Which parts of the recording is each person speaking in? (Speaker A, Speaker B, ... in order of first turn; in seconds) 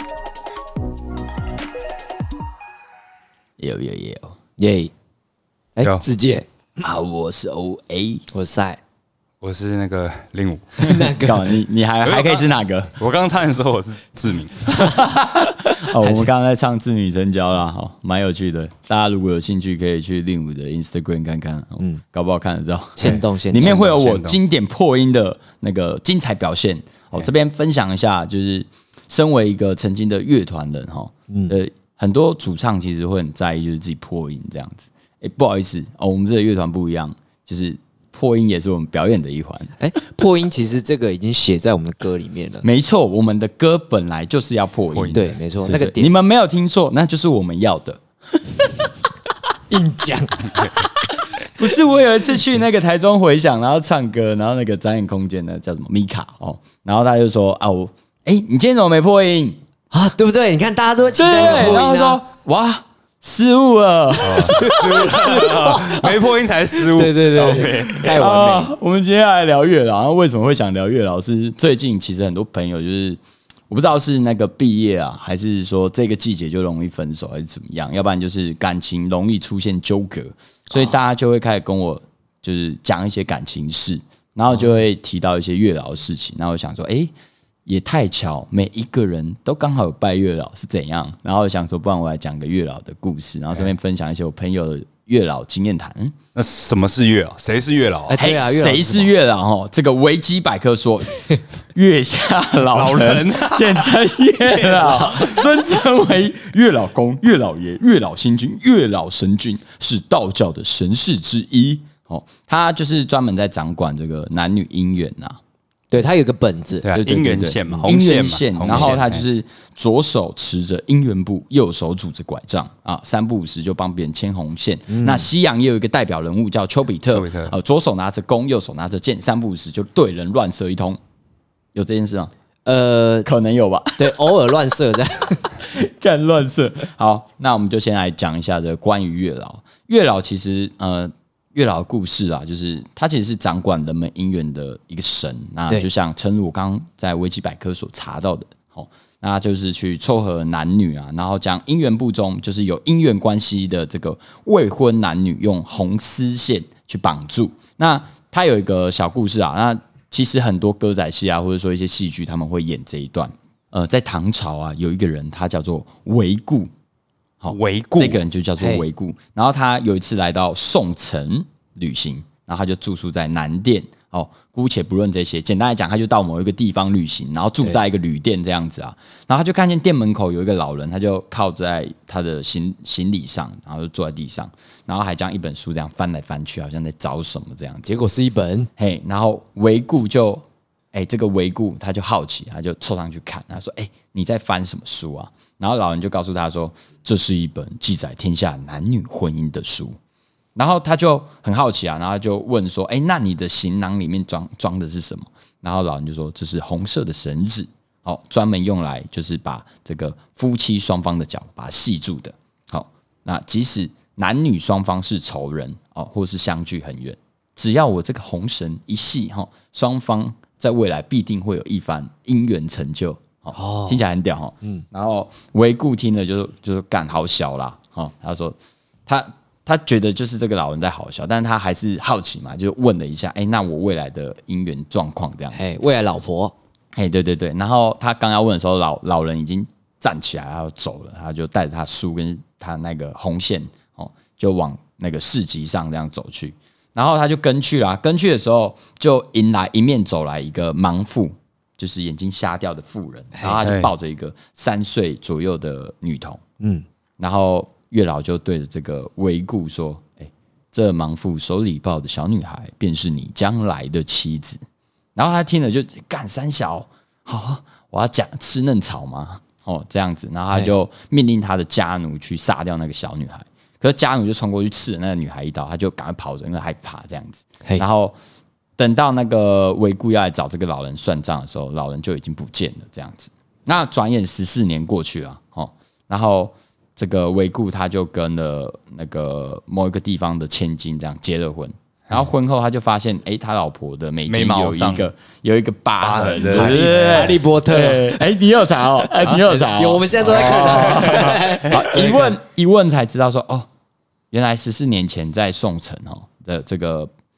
Speaker A: 3.6-4.4, 6.8-8.2, 11.1-13.0, 14.8-39.8, 42.6-48.7, 51.4-59.6, 61.2-65.5, 67.4-87.1, 87.7-96.2, 98.1-115.4, 116.9-131.0, 131.7-132.3, 133.3-134.3, 135.6-166.7, 167.4-187.9, 188.8-200.0, 200.6-235.8, 236.9-256.4, 257.2-264.6, 265.2-278.2, 278.8-303.7, 304.3-307.1
Speaker B: 4.6-4.9, 5.8-6.5, 8.3-8.8, 10.8-11.4, 23.0-24.0, 39.8-42.6, 45.1-46.1, 49.7-51.1, 59.9-62.2, 64.3-66.3, 66.8-68.7, 98.1-99.1, 115.9-116.9, 124.9-125.3, 132.7-133.3, 134.0-135.5, 168.6-168.8, 187.9-188.7, 223.5-224.0, 235.5-236.6, 253.4-253.6, 296.5-298.3, 299.0-302.3
Speaker C: 9.4-11.1, 12.1-12.5, 13.0-15.0, 23.0-24.4, 44.9-45.4, 64.2-68.1, 96.3-98.2, 102.7-104.0, 104.8-105.2, 116.8-119.2, 127.1-127.5, 167.5-168.2, 253.6-253.9, 294.3-295.1, 296.0-297.4, 300.4-301.4